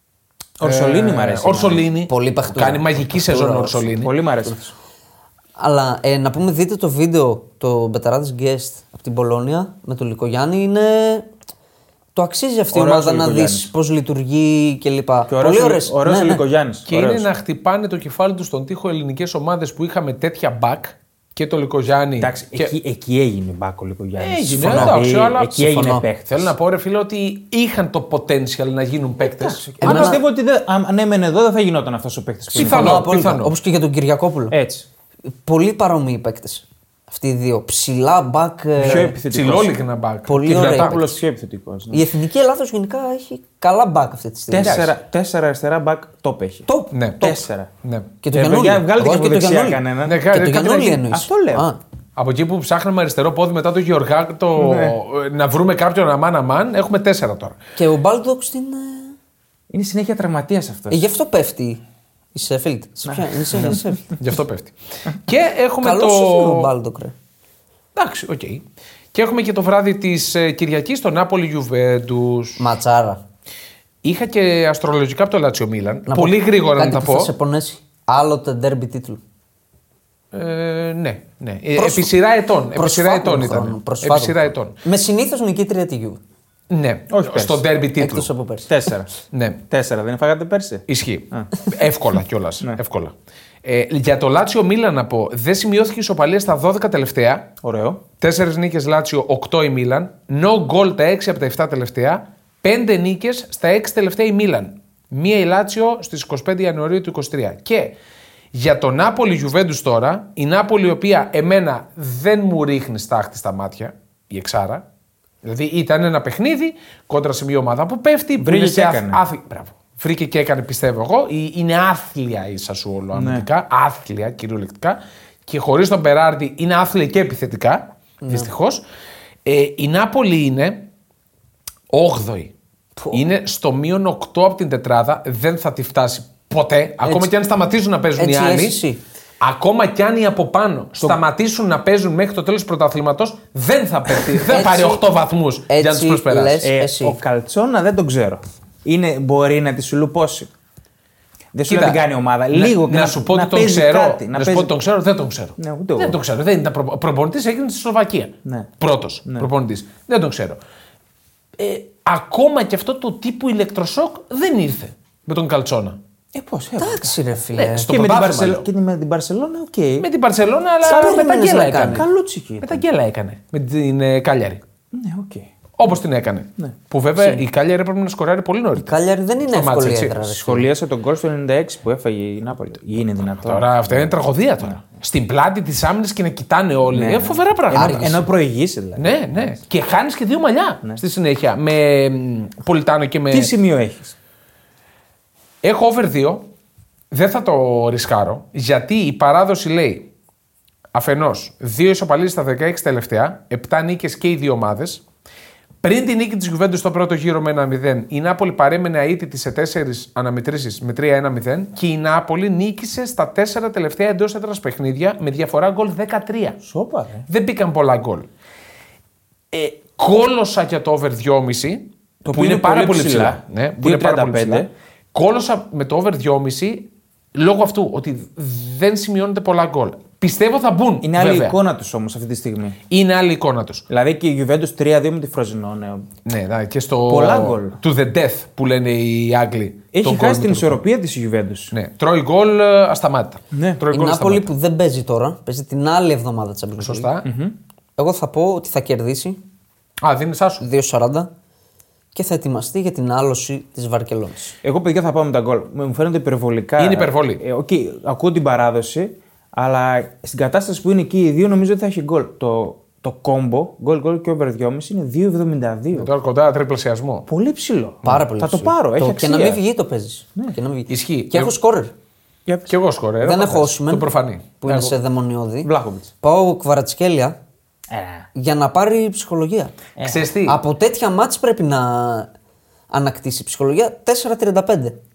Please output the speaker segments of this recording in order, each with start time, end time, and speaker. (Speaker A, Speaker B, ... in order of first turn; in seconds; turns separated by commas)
Speaker A: 0.6-1.9, Speaker B: 0.6-4.1, Speaker C: 2.1-3.9, Speaker A: 3.9-4.7, Speaker C: 5.6-11.3, Speaker C: 12.2-16.4, Speaker A: 12.7-13.7, Speaker A: 15.3-17.3, Speaker B: 16.9-22.7, Speaker A: 22.2-26.5, Speaker B: 24.2-25.7, Speaker C: 24.6-25.0, Speaker C: 25.6-26.0, Speaker B: 26.3-30.1, Speaker A: 29.2-33.1, Speaker C: 29.8-30.2, Speaker B: 32.5-33.5, Speaker C: 32.5-34.6, Speaker A: 34.5-34.9, Speaker C: 35.4-39.1, Speaker A: 38.8-39.7, Speaker B: 38.9-41.1, Speaker C: 40.3-41.0, Speaker A: 40.5-42.1, Speaker C: 41.9-44.9, Speaker A: 44.5-46.7, Speaker B: 44.6-44.9, Speaker C: 46.7-47.0, Speaker B: 46.9-48.1, Speaker A: 47.2-47.7, Speaker C: 48.2-51.8, Speaker A: 48.3-50.2, Speaker B: 50.0-51.0, Speaker A: 51.1-51.7, Speaker B: 52.2-57.6, Speaker A: 54.6-55.0, Speaker C: 57.8-59.1, Speaker A: 59.7-61.0, Speaker C: 60.9-61.8, Speaker C: 62.3-64.2, Speaker A: 63.1-63.8, Speaker B: 63.7-66.7, Speaker C: 65.8-67.1, Speaker B: 68.0-68.6, Speaker B: 69.1-72.7, Speaker C: 72.6-73.2, Speaker B: 74.0-77.3, Speaker C: 76.1-79.2, Speaker B: 80.3-84.8, Speaker C: 81.8-82.1, Speaker C: 82.7-86.2, Speaker B: 86.7-88.3, Speaker A: 87.1-87.6, Speaker C: 88.0-88.7, Speaker A: 88.7-89.1, Speaker B: 89.3-89.6, Speaker A: 89.7-91.5, Speaker B: 90.9-93.1, Speaker B: 93.6-97.5, Speaker A: 97.6-98.0, Speaker B: 98.2-108.0, Speaker B: 108.5-114.8, Speaker B: 115.4-128.8, Speaker A: 118.4-119.2, Speaker A: 123.1-123.5, Speaker C: 128.2-128.5, Speaker B: 129.4-130.9, Speaker B: 131.9-132.5, Speaker C: 133.0-133.2, Speaker B: 133.1-138.8, Speaker C: 137.0-137.3, Speaker C: 138.2-139.0, Speaker B: 139.4-146.6, Speaker C: 144.5-145.1, Speaker C: 145.7-147.2, Speaker A: 146.6-150.5, Speaker A: 151.5-154.7, Speaker B: 151.7-152.0, Speaker B: 152.5-160.6, Speaker A: 155.6-156.2, Speaker B: 161.6-166.0, Speaker A: 166.3-167.2, Speaker C: 166.8-167.9, Speaker B: 167.6-168.7, Speaker A: 167.7-170.1, Speaker B: 170.0-172.1, Speaker C: 170.8-172.1, Speaker A: 170.9-171.2, Speaker A: 171.9-172.8, Speaker B: 172.6-174.6, Speaker A: 174.9-175.5, Speaker B: 175.8-179.0, Speaker C: 178.8-180.7, Speaker B: 179.5-180.3, Speaker A: 180.4-184.1, Speaker B: 183.3-188.3, Speaker A: 186.9-189.5, Speaker C: 187.7-188.1, Speaker B: 189.0-193.5, Speaker A: 193.3-194.2, Speaker B: 195.6-196.5, Speaker B: 197.1-200.1, Speaker B: 200.9-205.0, Speaker B: 205.8-216.6, Speaker A: 216.6-217.3, Speaker B: 217.3-218.3, Speaker B: 219.5-231.6, Speaker A: 222.2-224.7, Speaker A: 231.0-232.8, Speaker B: 232.9-233.8, Speaker A: 233.9-236.1, Speaker B: 236.2-240.8, Speaker A: 237.1-237.8, Speaker A: 239.9-241.7, Speaker B: 241.7-244.5, Speaker A: 243.5-243.8, Speaker C: 243.9-247.1, Speaker B: 246.8-247.3, Speaker A: 247.2-247.6, Speaker C: 248.0-249.4, Speaker B: 250.0-250.6, Speaker C: 250.6-251.3, Speaker C: 252.1-254.6, Speaker A: 254.6-266.1, Speaker B: 256.8-257.4, Speaker B: 265.9-267.3, Speaker A: 267.3-269.6, Speaker C: 268.0-271.9, Speaker B: 270.9-271.5, Speaker A: 272.5-272.7, Speaker B: 272.7-275.0, Speaker C: 273.2-274.1, Speaker C: 274.6-275.7, Speaker A: 275.6-276.1, Speaker C: 276.2-277.4, Speaker A: 277.9-278.3, Speaker C: 278.4-279.8, Speaker A: 280.0-280.3, Speaker B: 280.0-280.6, Speaker C: 280.4-282.3, Speaker C: 282.9-285.0